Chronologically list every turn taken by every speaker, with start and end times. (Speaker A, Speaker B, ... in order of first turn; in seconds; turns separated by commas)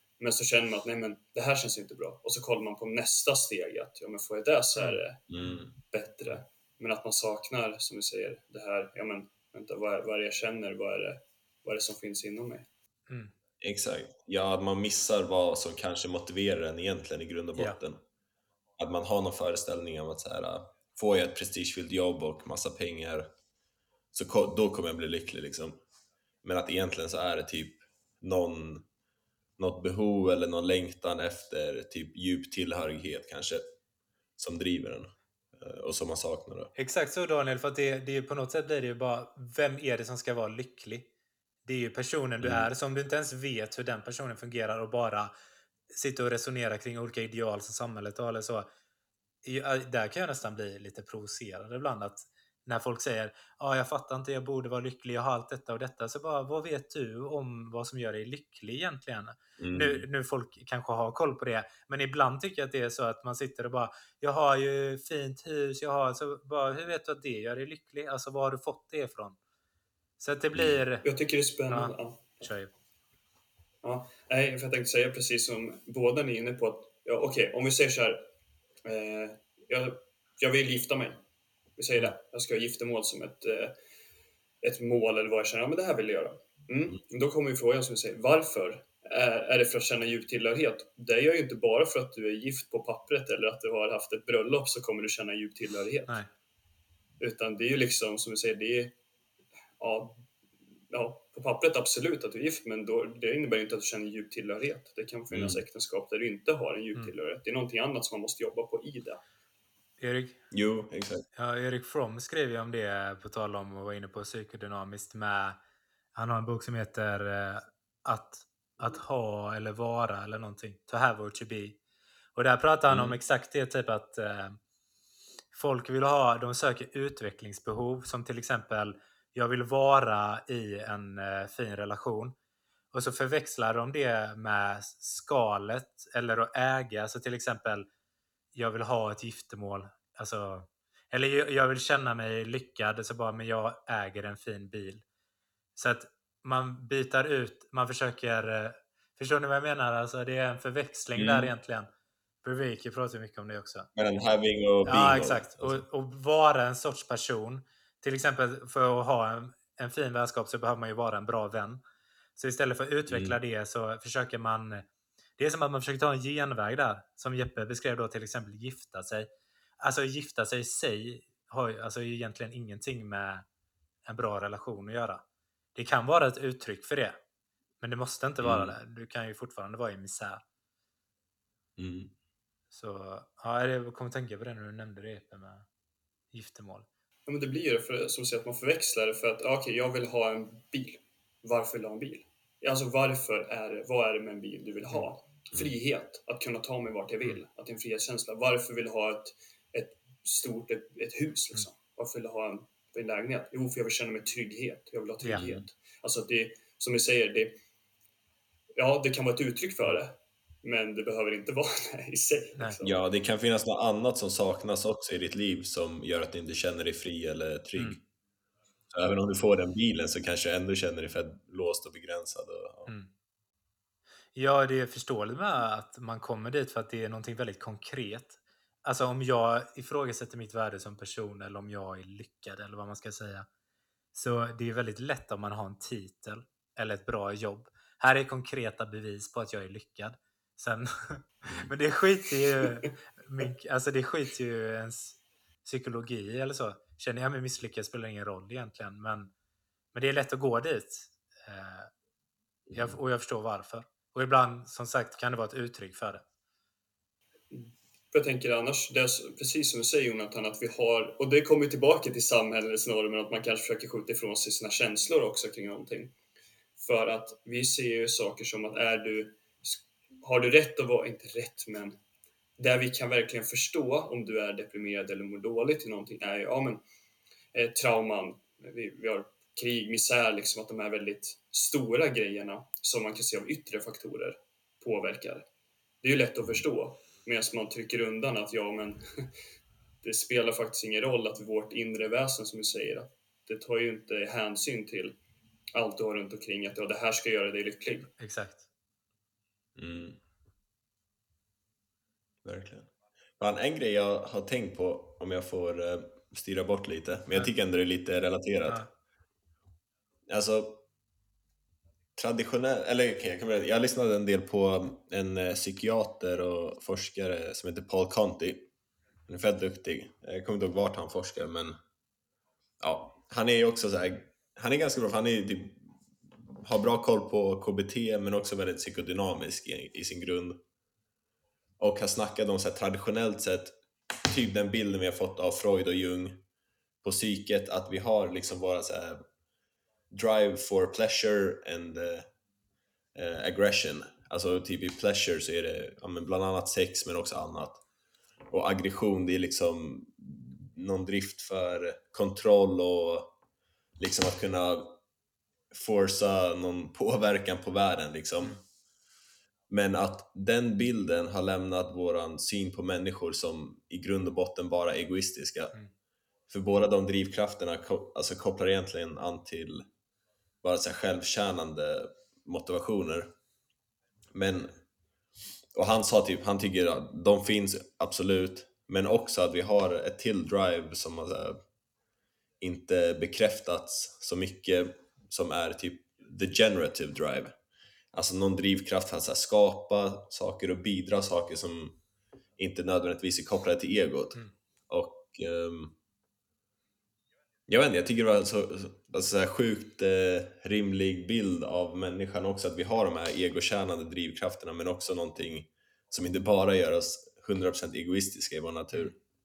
Speaker A: 0.2-5.3, Speaker B: 5.3-5.7, Speaker A: 5.8-12.7, Speaker B: 13.6-18.0, Speaker B: 18.8-23.3, Speaker B: 24.1-25.8, Speaker B: 26.4-28.8, Speaker B: 29.6-33.6, Speaker B: 34.4-36.7, Speaker C: 36.8-41.1, Speaker C: 41.6-45.3, Speaker B: 42.4-42.7, Speaker C: 45.9-48.7, Speaker C: 49.4-69.4, Speaker B: 59.6-60.0, Speaker C: 70.2-71.0, Speaker A: 71.0-72.4, Speaker C: 71.7-72.7, Speaker A: 73.8-78.2, Speaker A: 78.8-81.2, Speaker A: 81.8-83.7, Speaker A: 84.6-96.2, Speaker A: 97.2-98.9, Speaker A: 99.8-100.2, Speaker A: 100.9-109.2, Speaker B: 105.3-105.6, Speaker C: 110.0-110.4, Speaker B: 110.5-111.2, Speaker C: 111.3-115.6, Speaker C: 116.1-121.8, Speaker C: 122.3-124.6, Speaker B: 122.9-123.2, Speaker C: 125.5-132.3, Speaker C: 132.9-137.9, Speaker C: 138.5-145.0, Speaker C: 145.8-151.9, Speaker B: 151.1-151.5, Speaker C: 152.4-153.9, Speaker B: 153.9-155.8, Speaker C: 154.8-161.8, Speaker C: 162.3-164.8, Speaker B: 163.1-163.4, Speaker C: 165.4-169.3, Speaker C: 169.8-173.4, Speaker C: 174.0-175.2, Speaker C: 175.7-177.2, Speaker C: 177.8-180.4, Speaker B: 178.4-178.7, Speaker B: 181.8-182.1, Speaker C: 182.7-185.7, Speaker C: 186.3-186.9, Speaker A: 187.3-207.6, Speaker C: 205.2-205.5, Speaker B: 205.3-205.6, Speaker A: 208.8-213.0, Speaker B: 212.8-218.0, Speaker B: 218.9-222.9, Speaker C: 224.3-233.5, Speaker C: 234.1-249.3, Speaker C: 249.9-251.9, Speaker B: 252.7-252.9, Speaker C: 252.7-256.2, Speaker A: 257.5-266.1, Speaker A: 266.8-272.0, Speaker A: 272.6-276.8, Speaker A: 277.5-285.4, Speaker A: 286.0-289.3, Speaker A: 290.0-295.1, Speaker A: 295.7-298.1, Speaker C: 298.2-298.6, Speaker B: 299.8-300.2, Speaker B: 302.4-308.8, Speaker B: 310.3-310.8, Speaker B: 312.2-318.6, Speaker B: 319.3-321.8, Speaker B: 322.8-330.6, Speaker B: 331.8-336.4, Speaker B: 337.0-339.2, Speaker B: 340.1-342.3, Speaker B: 343.1-347.8, Speaker B: 348.5-353.3, Speaker B: 354.0-355.0, Speaker B: 355.7-358.6, Speaker B: 359.7-365.7, Speaker B: 366.5-369.9, Speaker B: 370.6-373.3, Speaker B: 374.3-374.8, Speaker B: 375.7-381.6, Speaker B: 382.6-387.5, Speaker B: 388.1-392.0, Speaker B: 392.6-394.4, Speaker B: 394.9-395.9, Speaker B: 397.7-409.1